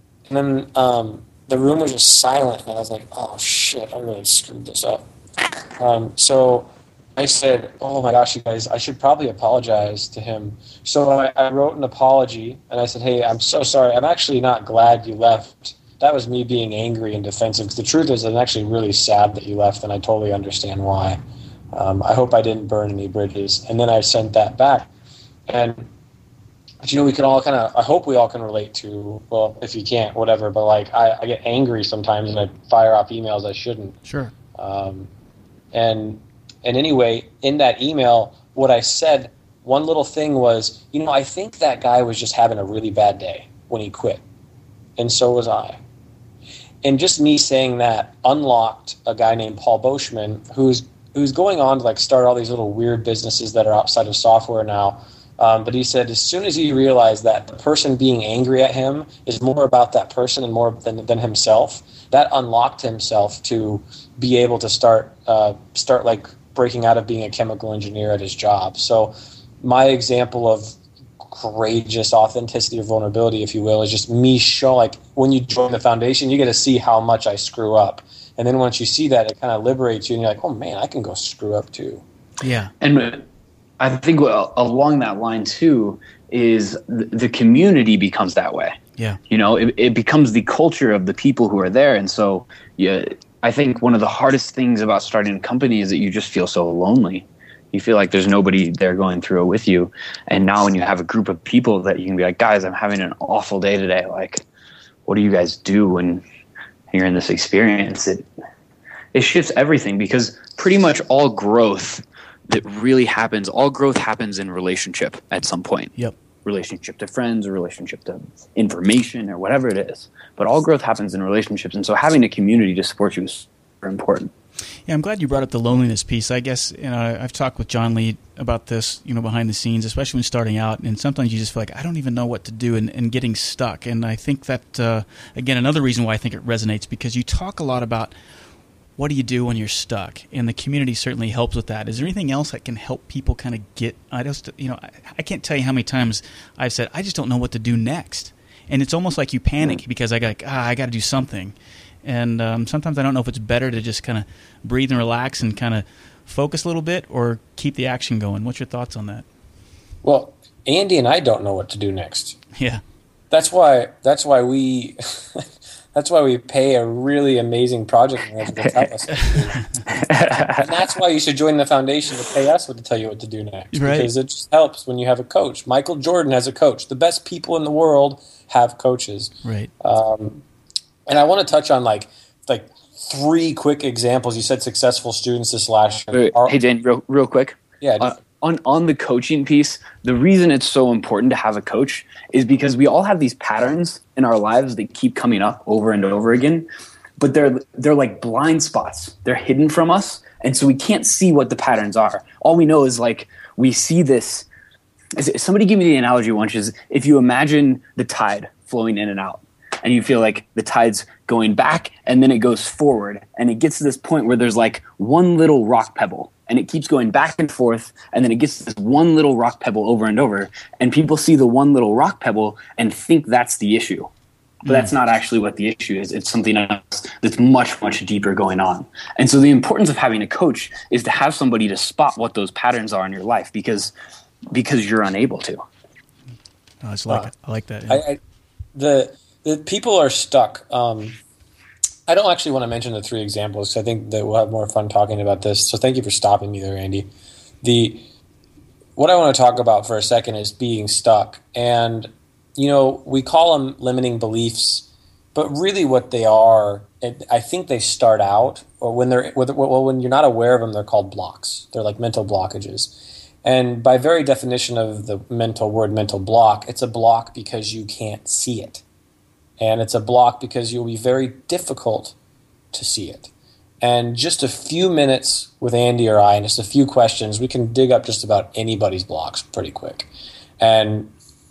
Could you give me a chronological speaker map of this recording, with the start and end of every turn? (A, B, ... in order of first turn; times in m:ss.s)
0:00.3-0:05.0 A
0:05.8-0:21.2 A
0:21.7-0:24.9 A
0:25.5-0:25.9 A
0:26.8-0:34.0 A
0:34.0-0:34.3 B
0:34.6-0:35.1 A
0:35.7-0:44.2 A
0:45.0-0:45.8 A
0:46.8-1:22.0 A
1:22.4-1:22.7 B
1:22.8-1:23.2 C
1:23.8-1:28.8 C
1:29.3-1:44.4 C
1:45.0-1:46.2 C
1:46.9-1:48.3 C
1:49.1-1:55.9 C
1:56.4-2:04.3 C
2:04.9-2:18.1 B
2:19.0-2:39.2 B
2:40.0-2:42.4 A
2:42.5-2:42.8 B
2:43.3-2:49.6 A
2:49.9-2:50.7 C
2:50.6-3:00.4 A
2:53.7-2:54.1 B
2:59.4-2:59.7 B
3:01.1-3:06.6 A
3:06.1-3:16.7 C
3:07.8-3:08.1 A
3:17.2-3:24.4 C
3:25.2-3:44.1 C
3:44.6-3:44.9 B
3:44.6-3:53.9 C
3:54.5-3:55.6 C
3:56.8-3:58.0 B
3:57.9-3:58.2 A
3:58.7-4:01.2 A
4:02.1-4:07.1 A
4:07.6-4:08.0 A
4:09.0-4:28.8 A
4:29.6-4:32.1 A
4:32.7-4:33.3 A
4:33.8-4:40.1 A
4:40.6-4:41.1 A